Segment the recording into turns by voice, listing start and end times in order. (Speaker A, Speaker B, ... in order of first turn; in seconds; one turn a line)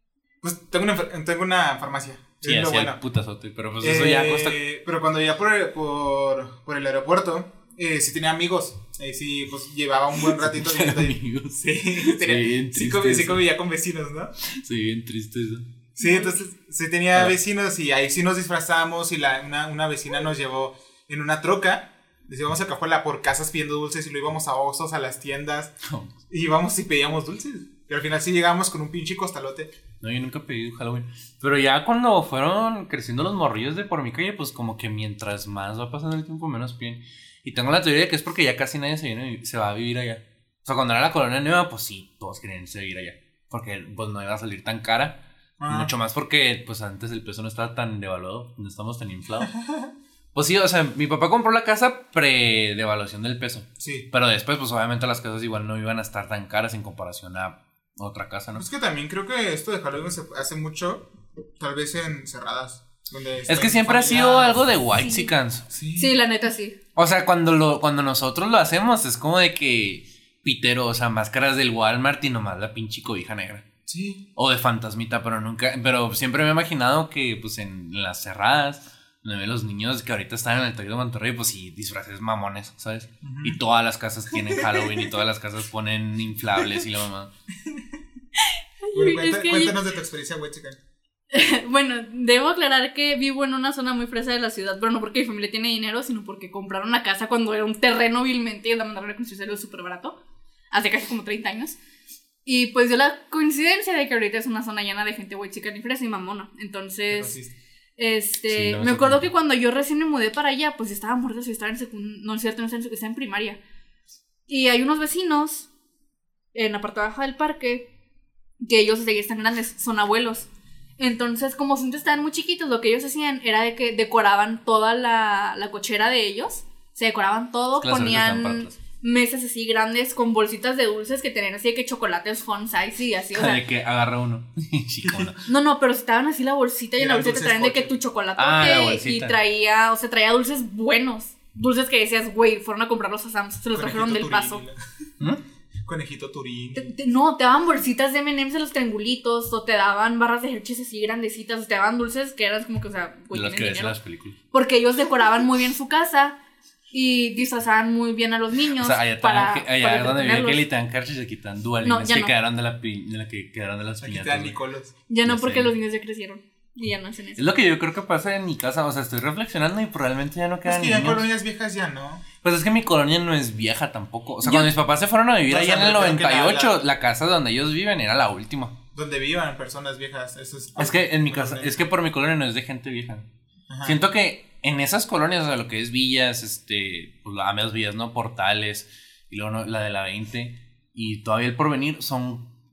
Speaker A: 0.4-3.0
Speaker B: 2.4-4.6
Speaker A: 3.8-14.3
Speaker B: 10.2-13.4
Speaker B: 14.5-15.6
Speaker A: 15.9-25.7
Speaker C: 16.0-16.4
Speaker B: 25.9-26.1
Speaker A: 26.3-29.7
Speaker B: 30.0-49.5
Speaker A: 45.6-45.9
Speaker A: 49.4-49.9
Speaker B: 50.3-58.6
Speaker A: 53.8-54.1
Speaker A: 58.5-61.1
Speaker A: 61.6-64.8
Speaker B: 63.5-65.7
Speaker C: 65.0-65.3
Speaker A: 65.7-66.2
Speaker C: 66.0-66.8
Speaker B: 67.0-73.6
Speaker A: 73.9-74.2
Speaker B: 74.3-87.3
Speaker A: 83.2-83.6
Speaker A: 84.3-85.1
Speaker C: 88.4-89.8
Speaker A: 88.9-90.8
Speaker C: 91.3-100.2
Speaker C: 100.7-101.8
Speaker C: 102.4-107.4
Speaker A: 107.1-107.5
Speaker C: 108.0-113.6
Speaker B: 108.5-109.2
Speaker C: 114.5-115.7
Speaker C: 116.5-117.9
Speaker C: 118.6-133.6
Speaker B: 127.8-128.8
Speaker B: 133.3-135.4
Speaker A: 135.0-135.3
Speaker C: 135.5-144.6
Speaker A: 137.0-137.9
Speaker B: 138.4-139.3
Speaker A: 143.7-144.8
Speaker A: 145.8-146.9
Speaker C: 146.8-153.9
Speaker B: 153.3-154.4
Speaker C: 154.5-156.3
Speaker C: 156.9-160.6
Speaker B: 158.8-164.6
Speaker C: 161.8-162.3
Speaker A: 164.0-164.9
Speaker C: 165.1-167.4
Speaker B: 165.2-165.7
Speaker B: 167.4-171.3
Speaker A: 170.6-172.2
Speaker B: 172.4-178.7
Speaker C: 174.4-174.7
Speaker A: 175.5-176.8
Speaker A: 178.9-181.7
Speaker B: 180.8-183.2
Speaker A: 183.7-184.0
Speaker B: 183.8-192.5